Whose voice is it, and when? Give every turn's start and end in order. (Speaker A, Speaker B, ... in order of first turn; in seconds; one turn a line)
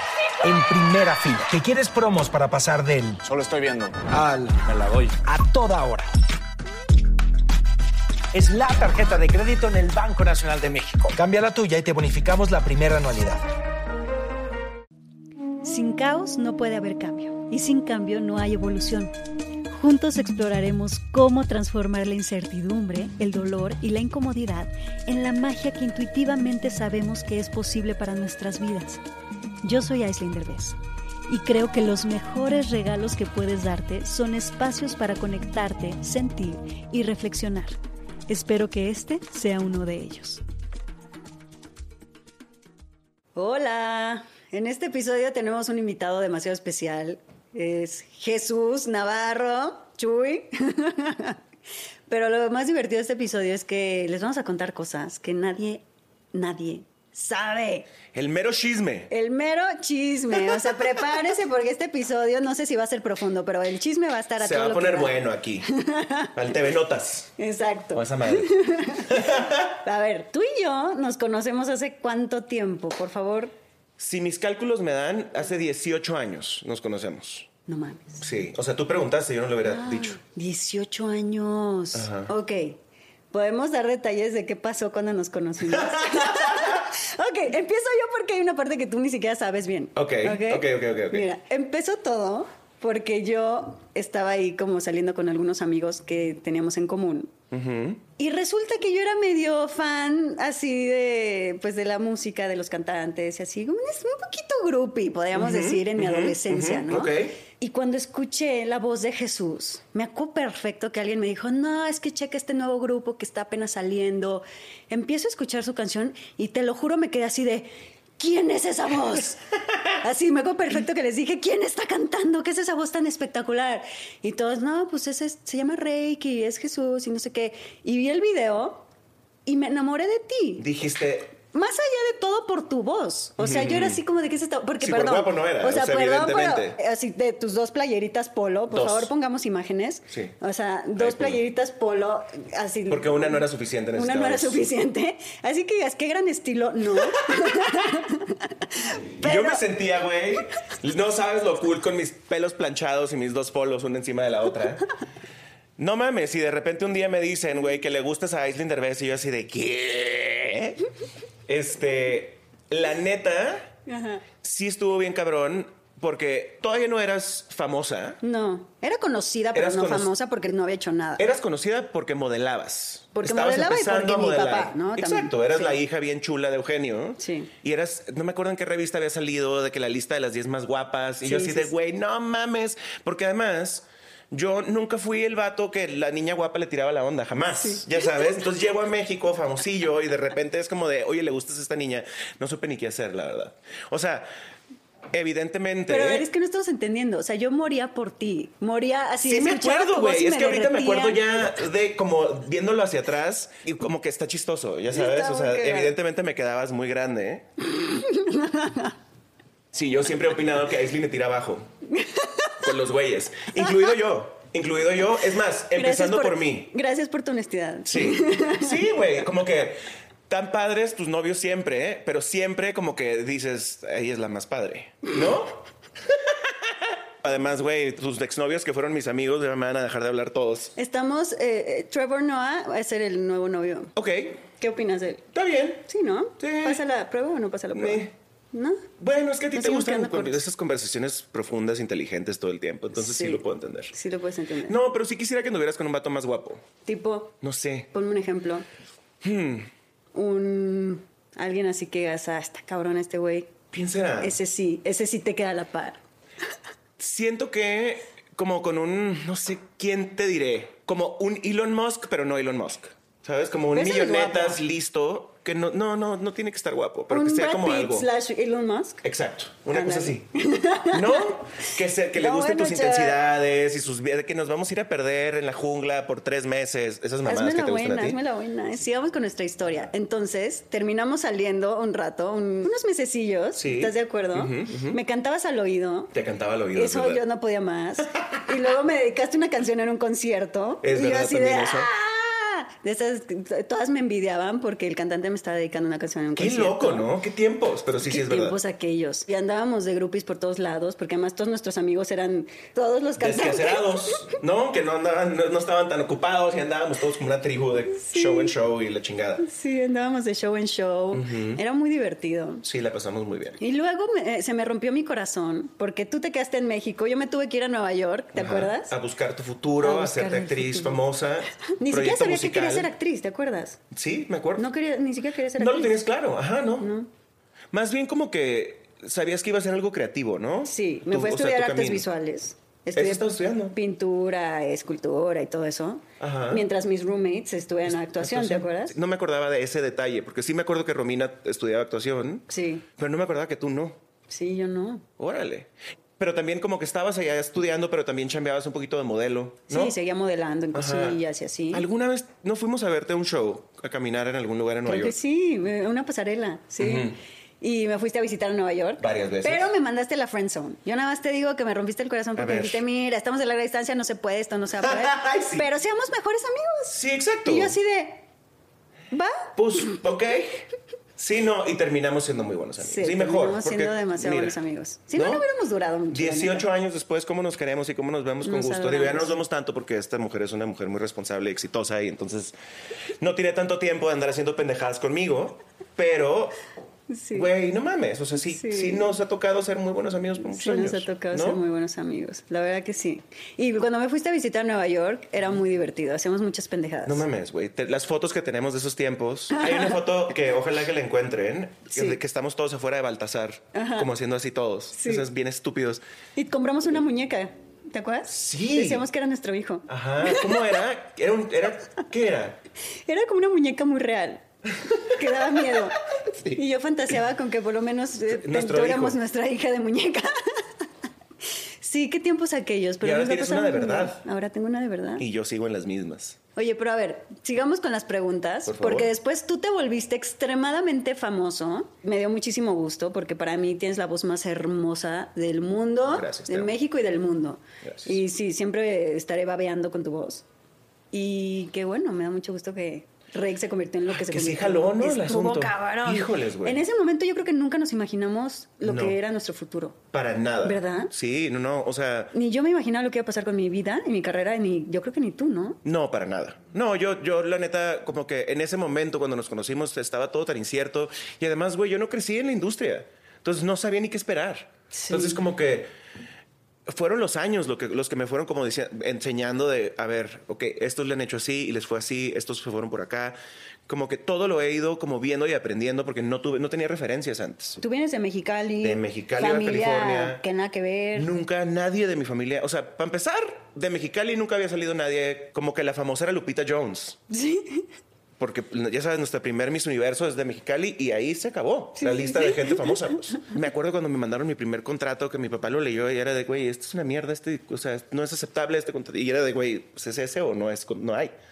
Speaker A: 0.4-6.1
Speaker A: 8.3-13.4
Speaker B: 15.6-19.1
Speaker B: 19.7-29.0
Speaker B: 29.6-30.8
Speaker B: 31.3-37.8
Speaker B: 38.3-40.4
Speaker B: 43.4-51.4
Speaker B: 52.1-55.8
Speaker B: 56.3-57.9
Speaker C: 58.1-59.1
Speaker B: 59.1-65.2
Speaker C: 60.4-60.8
Speaker C: 64.4-65.7
Speaker B: 65.7-66.4
Speaker C: 66.3-67.3
Speaker B: 67.4-73.5
Speaker C: 67.9-69.7
Speaker C: 74.0-77.5
Speaker B: 77.7-78.2
Speaker C: 78.2-80.2
Speaker B: 79.6-82.8
Speaker C: 81.9-82.3
Speaker B: 83.3-97.3
Speaker C: 85.7-86.8
Speaker C: 90.0-91.3
Speaker C: 97.5-98.0
Speaker B: 98.2-119.4
Speaker C: 105.3-107.4
Speaker B: 120.0-128.9
Speaker B: 129.5-130.7
Speaker C: 130.6-131.3
Speaker B: 131.4-149.6
Speaker C: 133.4-134.0
Speaker C: 134.8-136.8
Speaker C: 138.7-139.1
Speaker C: 141.0-141.4
Speaker C: 142.9-144.6
Speaker C: 147.0-147.7
Speaker C: 149.2-154.9
Speaker C: 155.8-160.9
Speaker C: 161.5-163.7
Speaker B: 163.9-164.2
Speaker C: 164.4-168.2
Speaker B: 168.2-171.2
Speaker C: 169.5-170.1
Speaker C: 171.2-194.3
Speaker B: 173.2-175.8
Speaker B: 177.2-177.5
Speaker B: 181.2-181.7
Speaker B: 187.4-188.1
Speaker C: 195.1-196.3
Speaker B: 195.9-201.2
Speaker C: 199.2-207.5
Speaker B: 204.9-205.9
Speaker B: 207.7-209.0
Speaker C: 209.7-211.7
Speaker B: 211.9-212.7
Speaker C: 212.6-216.7
Speaker B: 215.7-218.9
Speaker C: 217.9-230.8
Speaker B: 230.8-233.9
Speaker C: 233.9-234.4
Speaker B: 234.6-235.2
Speaker C: 235.3-235.8
Speaker B: 235.8-238.9
Speaker C: 236.4-236.8
Speaker C: 237.7-238.1
Speaker C: 239.0-243.9
Speaker B: 239.6-240.4
Speaker B: 242.9-244.8
Speaker C: 244.7-246.7
Speaker B: 246.8-247.4
Speaker C: 247.4-247.9
Speaker B: 247.9-248.7
Speaker C: 249.2-249.7
Speaker B: 250.1-253.5
Speaker C: 253.7-254.4
Speaker B: 254.2-256.0
Speaker C: 257.0-268.1
Speaker B: 263.7-264.6
Speaker B: 267.1-269.0
Speaker C: 269.0-270.3
Speaker B: 269.7-271.2
Speaker C: 270.9-278.2
Speaker B: 272.1-273.2
Speaker B: 277.2-286.1
Speaker C: 283.6-285.0
Speaker C: 286.1-287.2
Speaker B: 286.7-297.1
Speaker C: 290.8-291.9
Speaker C: 296.4-298.6
Speaker B: 298.0-304.4
Speaker C: 303.2-309.5
Speaker B: 307.9-308.5
Speaker B: 309.4-312.6
Speaker C: 311.1-311.6
Speaker C: 312.6-313.6
Speaker B: 313.6-318.9
Speaker C: 318.4-322.9
Speaker B: 319.8-321.0
Speaker B: 321.7-323.8
Speaker C: 323.9-324.7
Speaker B: 324.6-326.0
Speaker C: 325.6-326.9
Speaker B: 326.8-327.1
Speaker C: 327.7-332.1
Speaker B: 330.6-338.9
Speaker C: 332.9-333.8
Speaker C: 336.2-336.7
Speaker C: 337.9-342.5
Speaker B: 342.5-342.9
Speaker C: 343.0-344.0
Speaker B: 344.3-345.1
Speaker C: 345.2-350.0
Speaker B: 349.7-351.9
Speaker C: 350.7-351.2
Speaker C: 351.7-355.2
Speaker B: 354.9-368.2
Speaker C: 356.8-357.2
Speaker C: 359.0-359.7
Speaker C: 362.4-362.8
Speaker C: 364.8-365.6
Speaker C: 366.9-367.8
Speaker B: 369.1-370.0
Speaker C: 369.6-374.6
Speaker B: 372.8-376.7
Speaker C: 375.1-375.4
Speaker C: 376.1-382.5
Speaker B: 378.4-379.4
Speaker C: 383.2-386.6
Speaker B: 387.1-387.5
Speaker C: 387.3-391.6
Speaker B: 388.4-389.1
Speaker B: 390.4-397.3
Speaker C: 397.1-406.0
Speaker B: 399.5-400.0
Speaker B: 401.9-402.2
Speaker B: 403.7-404.1
Speaker B: 404.9-405.2
Speaker B: 406.4-410.8
Speaker C: 408.3-409.1
Speaker C: 409.9-412.6
Speaker B: 413.1-414.4
Speaker B: 415.0-420.9
Speaker C: 415.3-415.8
Speaker C: 418.3-419.2
Speaker B: 421.8-425.2
Speaker C: 423.0-424.2
Speaker C: 425.2-426.4
Speaker B: 426.6-440.4
Speaker C: 428.7-429.1
Speaker C: 436.1-436.7
Speaker C: 437.8-438.2
Speaker B: 441.1-450.0
Speaker C: 444.1-446.8
Speaker C: 448.8-449.2
Speaker C: 450.1-452.3
Speaker B: 450.6-451.1
Speaker B: 452.3-455.8
Speaker C: 455.9-465.9
Speaker B: 464.9-465.4
Speaker C: 466.9-477.8
Speaker B: 477.8-481.3
Speaker C: 478.8-480.4
Speaker C: 481.1-487.2
Speaker B: 487.3-487.9
Speaker C: 488.4-501.3
Speaker B: 492.0-493.0